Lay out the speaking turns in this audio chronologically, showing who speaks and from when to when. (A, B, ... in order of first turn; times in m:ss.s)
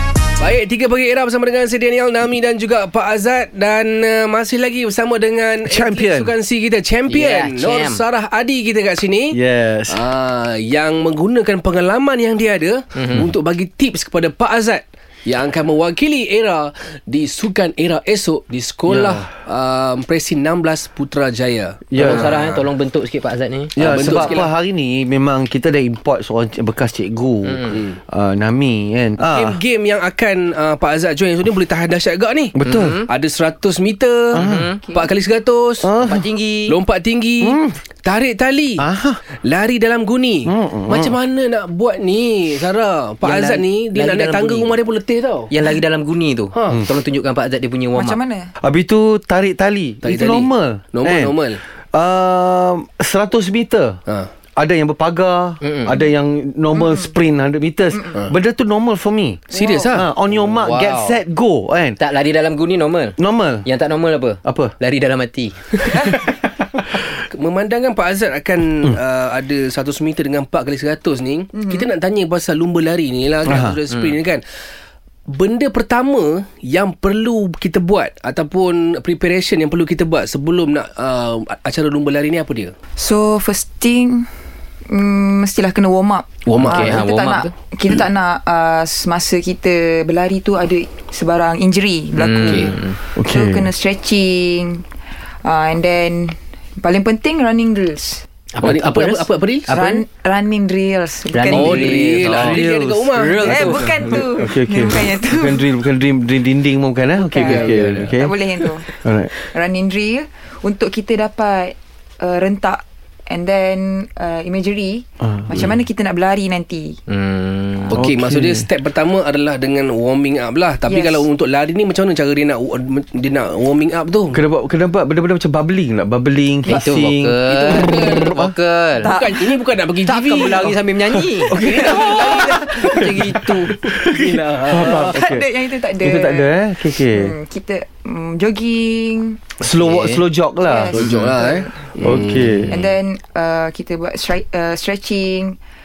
0:00.4-0:22.7 A
0:05.6-0:06.3 B
0:07.1-0:08.0 C
0:09.3-0:10.1 B
0:13.0-0:13.3 C
0:18.9-0:19.2 B
0:21.9-0:22.4 B
0:22.0-0:24.4 C
0:23.8-0:29.6 B
0:23.8-0:24.5 A
0:27.5-0:27.8 C
0:27.7-0:28.0 A
0:29.2-0:36.0 A
0:32.5-0:33.0 B
0:32.7-0:33.1 C
0:34.3-0:34.7 B
0:34.4-0:34.8 C
0:34.8-0:35.1 D
0:35.8-0:36.3 B
0:36.0-0:36.8 C
0:36.7-0:45.5 A
0:37.4-0:37.8 B
0:38.8-0:39.2 B
0:40.5-0:41.1 B
0:43.2-0:44.8 C
0:45.5-0:48.2 C
0:46.6-0:46.8 A
0:47.9-0:48.5 D
0:48.6-0:51.4 B
0:50.0-0:51.6 A
0:51.9-0:54.0 B
0:54.6-1:02.0 B
0:55.6-0:56.0 C
0:56.7-0:57.2 D
0:59.5-1:00.0 D
0:59.5-1:00.1 A
1:00.3-1:01.2 C
1:02.0-1:06.3 C
1:03.2-1:03.7 B
1:04.4-1:04.7 B
1:07.0-1:14.4 A
1:11.6-1:11.8 D
1:13.5-1:13.8 B
1:13.9-1:14.2 C
1:15.3-1:22.8 A
1:23.0-1:24.3 D
1:24.9-1:34.8 D
1:26.5-1:27.0 A
1:26.6-1:27.5 C
1:32.2-1:33.0 C
1:33.2-1:33.7 B
1:35.4-1:38.2 D
1:38.5-1:40.0 C
1:38.6-1:39.7 A
1:39.7-1:42.0 D
1:41.3-1:42.6 C
1:41.5-1:43.9 A
1:42.2-1:48.4 B
1:43.2-1:44.2 C
1:43.4-1:45.6 D
1:47.2-1:57.0 D
1:47.4-1:48.2 C
1:49.0-1:49.3 B
1:55.2-1:55.7 B
1:57.1-1:58.0 C
1:57.9-2:04.4 A
1:58.0-1:58.7 B
2:00.9-2:01.3 D
2:04.3-2:08.6 B
2:06.7-2:09.1 C
2:07.5-2:08.4 A
2:09.0-2:10.8 A
2:09.0-2:09.6 D
2:10.0-2:13.8 C
2:11.5-2:12.7 A
2:11.5-2:17.4 B
2:13.9-2:15.2 A
2:14.7-2:15.0 C
2:15.1-2:19.4 D
2:19.6-2:21.3 B
2:19.8-2:20.2 C
2:20.6-2:21.9 D
2:20.9-2:22.7 A
2:22.0-2:22.8 B
2:22.7-2:25.6 D